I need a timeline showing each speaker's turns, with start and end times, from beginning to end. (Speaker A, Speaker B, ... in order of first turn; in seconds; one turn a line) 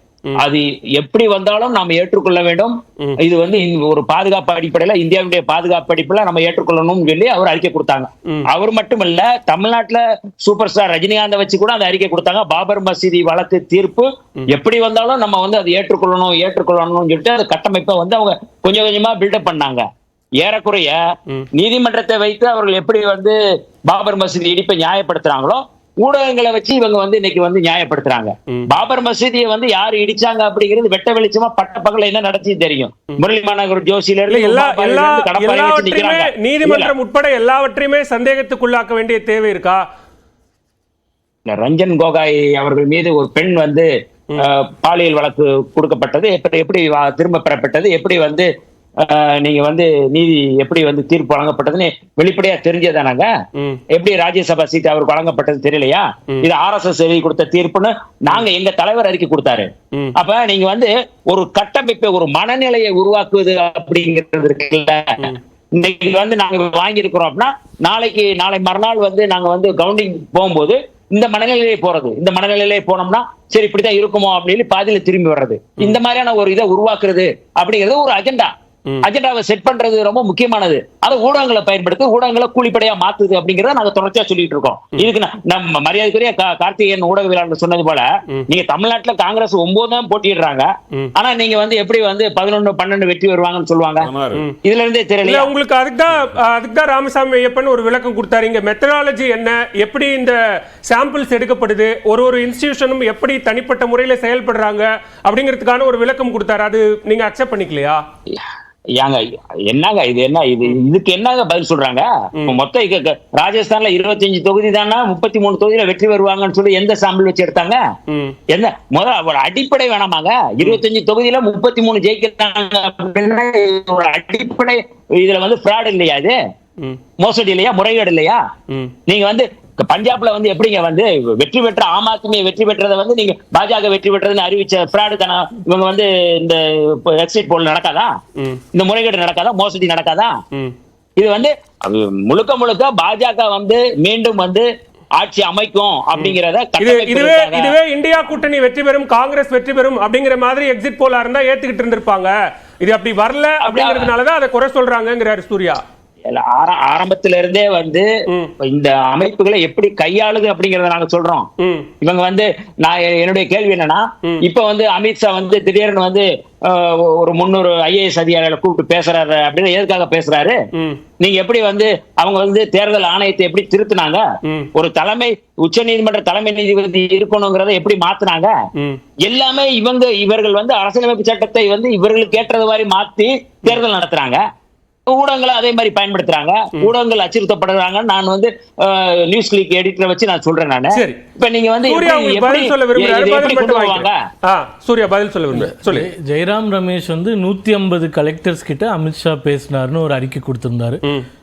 Speaker A: 0.4-19.8
Speaker A: 20.4-21.0
Speaker A: 21.5-36.9
Speaker B: 34.3-39.8
Speaker A: 41.5-43.9
Speaker A: 44.4-48.5
Speaker A: 49.0-53.3
Speaker B: 53.6-53.8
Speaker A: 53.9-78.5
Speaker A: 79.0-95.5
Speaker B: 94.3-94.6
Speaker B: 95.2-108.0
Speaker A: 109.0-117.8
Speaker B: 118.1-118.4
Speaker A: 118.5-126.3
Speaker A: 127.2-128.4
Speaker A: 129.1-138.1
Speaker A: 138.7-140.4
Speaker A: 141.2-144.7
Speaker A: 145.2-147.8
Speaker B: 146.2-155.8
Speaker A: 153.6-154.1
Speaker A: 156.3-158.1
Speaker A: 158.6-161.5
Speaker B: 161.6-161.9
Speaker A: 162.0-170.6
Speaker A: 171.2-174.2
Speaker A: 174.8-178.5
Speaker A: 179.2-184.4
Speaker A: 185.1-194.2
Speaker B: 191.9-196.1
Speaker C: 195.6-201.0